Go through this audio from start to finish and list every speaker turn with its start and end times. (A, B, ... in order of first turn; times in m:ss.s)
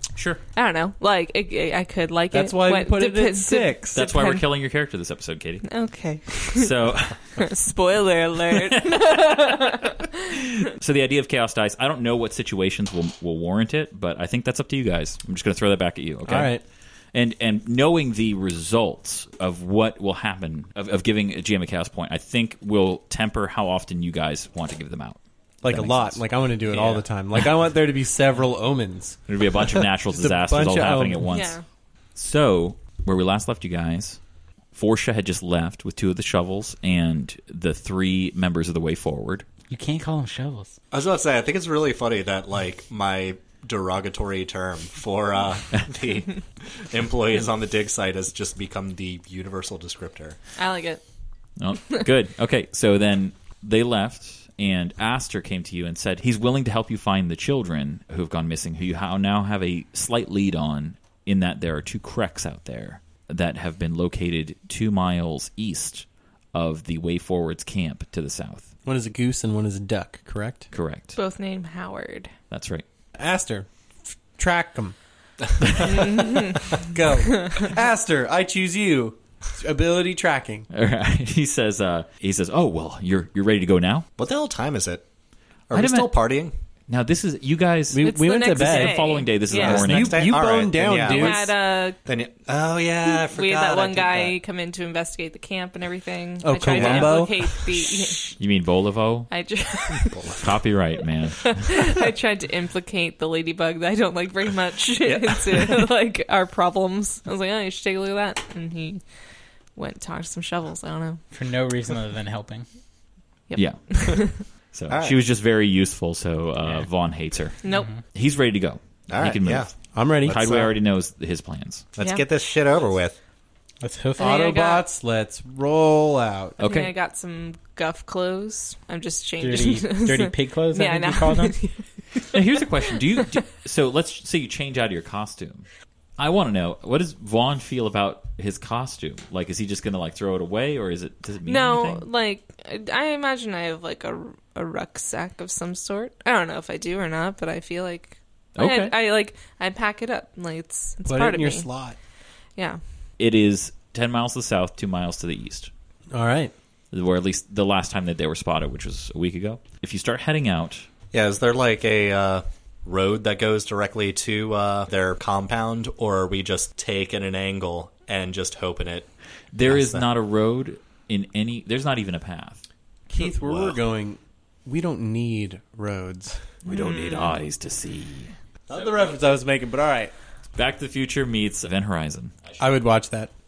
0:00.2-0:00.4 A
0:00.5-0:04.4 B
0:02.3-0:04.0 C
0:03.9-0:05.7 A
0:05.6-0:09.9 B
0:06.4-0:07.2 A
0:08.5-0:16.6 A
0:16.2-0:16.6 C
0:17.1-0:27.0 A
0:25.6-0:29.2 C
0:29.3-0:31.6 A
0:30.1-0:31.2 C
0:31.3-0:31.6 B
0:32.1-0:34.2 A
0:34.7-0:39.4 A
0:39.7-0:40.8 D
0:40.9-0:50.4 E
0:50.6-0:51.0 B
0:51.6-1:08.7 A
1:08.8-1:10.7 C
1:10.7-1:11.2 A
1:11.1-1:12.3 B
1:12.5-1:12.8 A
1:13.2-1:14.9 C
1:15.8-1:16.7 B
1:16.9-1:20.7 C
1:17.3-1:17.6 B
1:20.7-1:24.1 A
1:24.2-1:25.0 E
1:25.7-1:26.5 E
1:25.7-1:26.1 A
1:26.9-1:30.3 A
1:27.9-1:31.5 C
1:28.0-1:29.9 B
1:29.7-1:31.5 E
1:31.1-1:32.0 B
1:32.0-1:34.4 E
1:33.2-1:38.3 B
1:36.4-1:37.6 C
1:36.7-1:37.1 E
1:38.4-1:39.3 A
1:39.3-1:40.2 B
1:40.1-1:40.4 E
1:40.4-1:41.7 A
1:41.4-1:49.0 B
1:49.7-1:51.2 B
1:51.3-1:52.6 D
1:53.5-1:54.4 B
1:53.5-2:01.9 A
1:54.9-1:55.2 E
1:57.6-1:57.9 B
1:57.7-1:58.0 D
1:59.1-2:00.6 E
1:59.9-2:00.7 C
2:02.0-2:03.2 E
2:02.0-2:02.2 B
2:03.8-2:04.5 D
2:04.2-2:04.9 B
2:04.2-2:06.6 C
2:06.6-2:12.4 B
2:06.6-2:06.9 A
2:09.4-2:11.6 D
2:12.3-2:22.0 A
2:12.9-2:13.3 B
2:21.4-2:31.7 B
2:28.6-2:29.0 A
2:31.0-2:32.0 C
2:32.6-2:32.8 B
2:33.2-2:35.7 A
2:36.1-2:36.5 C
2:36.9-2:40.8 A
2:41.1-2:49.1 E
2:49.5-2:52.6 A
2:49.6-2:50.0 E
2:53.1-2:56.6 C
2:53.2-2:53.8 E
2:56.6-2:57.3 B
2:56.6-2:58.3 A
2:58.7-2:59.2 E
2:58.7-3:00.1 C
3:00.5-3:02.6 A
3:02.6-3:03.3 C